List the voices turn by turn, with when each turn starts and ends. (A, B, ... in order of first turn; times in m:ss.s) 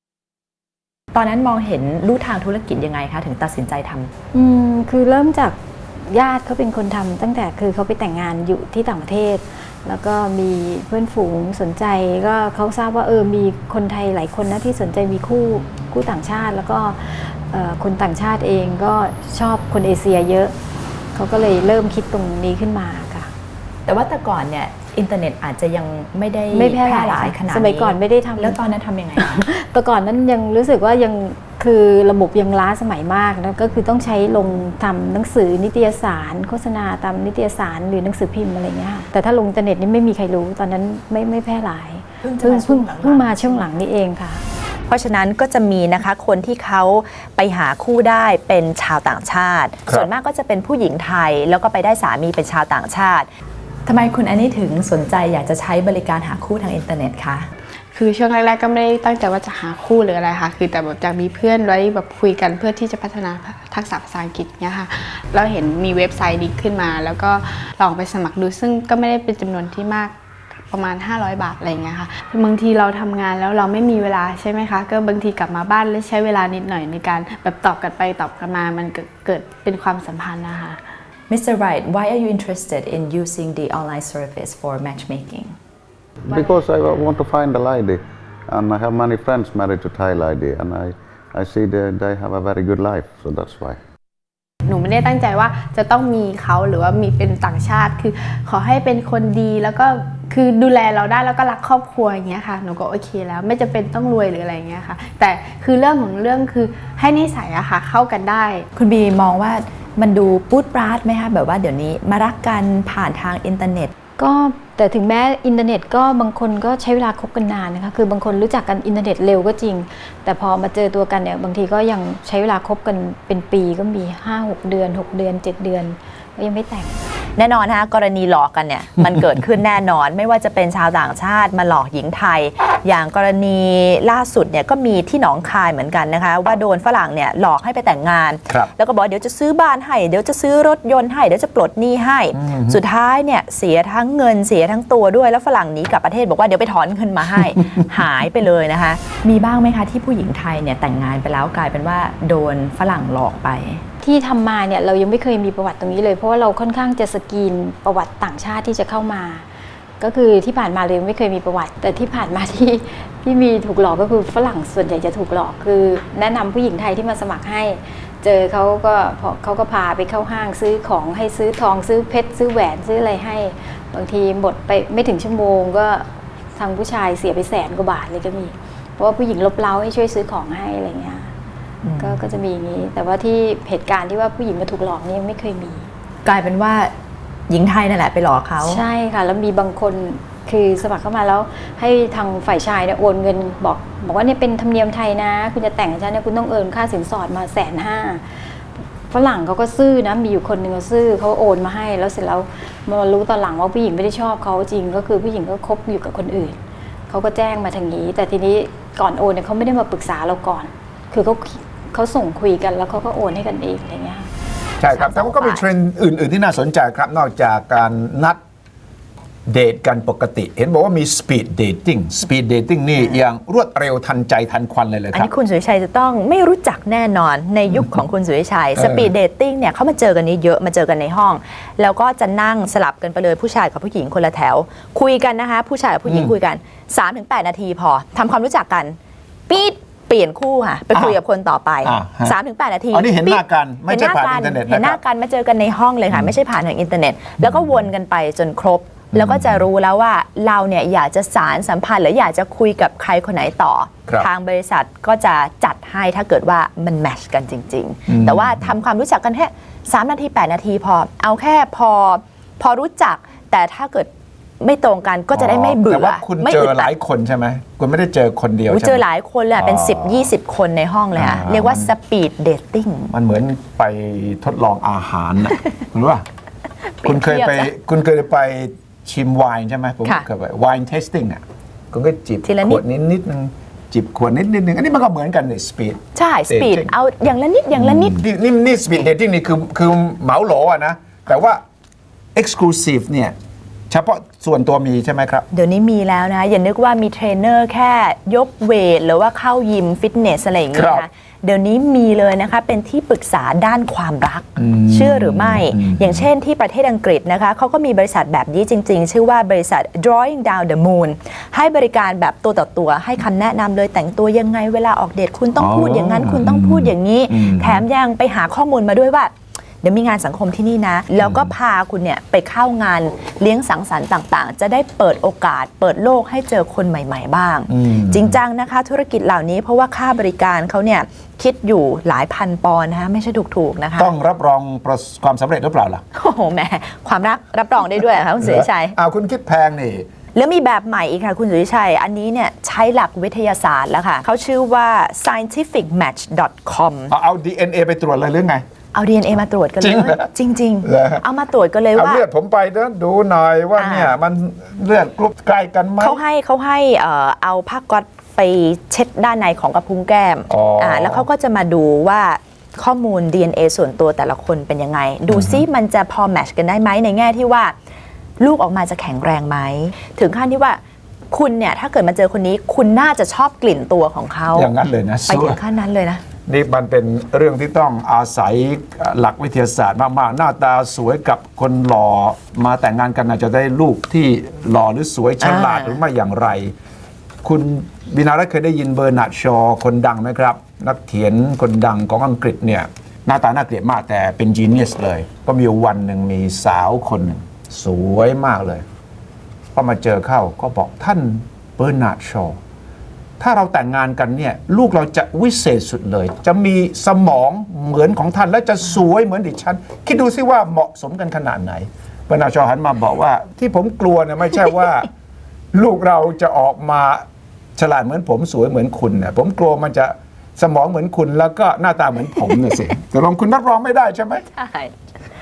0:01.1-0:04.1 A
0:04.3-0:20.5 B
0:21.2-0:23.3 B
0:23.9-0:29.4 A
0:26.5-0:28.6 B
0:29.2-0:44.4 B
0:42.2-0:43.7 A
0:44.9-0:53.3 A
0:53.9-0:57.5 A
0:58.0-1:10.2 C
1:10.7-1:20.8 C
1:21.3-1:25.6 A
1:26.2-1:33.8 D
1:34.6-1:48.6 C
1:48.8-1:53.9 A
1:54.2-2:07.0 B
2:07.4-2:33.8 A
2:22.4-2:22.8 E
2:34.0-2:39.5 B
2:40.0-3:01.3 B
3:01.8-3:02.2 A
3:02.0-3:05.9 B
3:06.2-3:06.9 A
3:07.5-3:08.8 A
3:08.6-3:26.6 B
3:27.1-3:34.3 B
3:34.8-3:38.4 E
3:34.9-3:35.4 B
3:35.3-3:35.6 A
3:39.5-3:45.3 E
3:45.2-3:59.0 A
3:47.7-3:48.0 E
3:48.8-3:49.1 E
3:56.0-3:56.4 E
3:59.5-4:24.1 A
4:00.9-4:01.2 E
4:01.8-4:02.4 E
4:02.9-4:05.0 E
4:06.1-4:06.4 E
4:07.4-4:07.9 E
4:09.1-4:09.7 E
4:18.1-4:18.8 E
4:24.6-4:26.9 A
4:25.3-4:29.0 E
4:28.7-4:33.1 A
4:29.6-4:30.3 E
4:31.1-4:31.9 E
4:33.1-4:36.2 E
4:37.0-4:37.7 A
4:37.0-4:46.9 E
4:42.4-4:42.8 A
4:46.2-4:48.2 A
4:47.8-4:51.6 E
4:52.4-4:53.3 E
4:53.9-4:55.4 E
4:55.5-5:34.1 A
5:00.7-5:01.1 E
5:04.6-5:06.3 E
5:15.6-5:17.8 E
5:21.2-5:21.5 E
5:27.7-5:28.4 E
5:34.0-5:36.0 E
5:36.1-5:39.0 A
5:38.4-5:40.1 E
5:40.3-5:47.1 A
5:47.1-5:48.6 E
5:48.9-5:52.2 A
5:49.8-5:50.3 E
5:50.8-5:51.2 E
5:51.9-5:56.2 E
5:53.8-5:54.1 A
5:56.0-6:07.7 A
6:00.5-6:01.3 E
6:05.3-6:05.6 E
6:08.4-6:10.8 A
6:11.3-6:14.7 A
6:14.5-6:15.6 E
6:15.3-6:16.2 A
6:16.5-6:26.7 E
6:25.4-6:26.0 A
6:27.4-6:38.8 E
6:39.8-6:42.6 E
6:43.4-6:55.1 E
6:55.7-6:57.2 E
6:57.8-7:04.4 E
7:04.6-7:04.9 A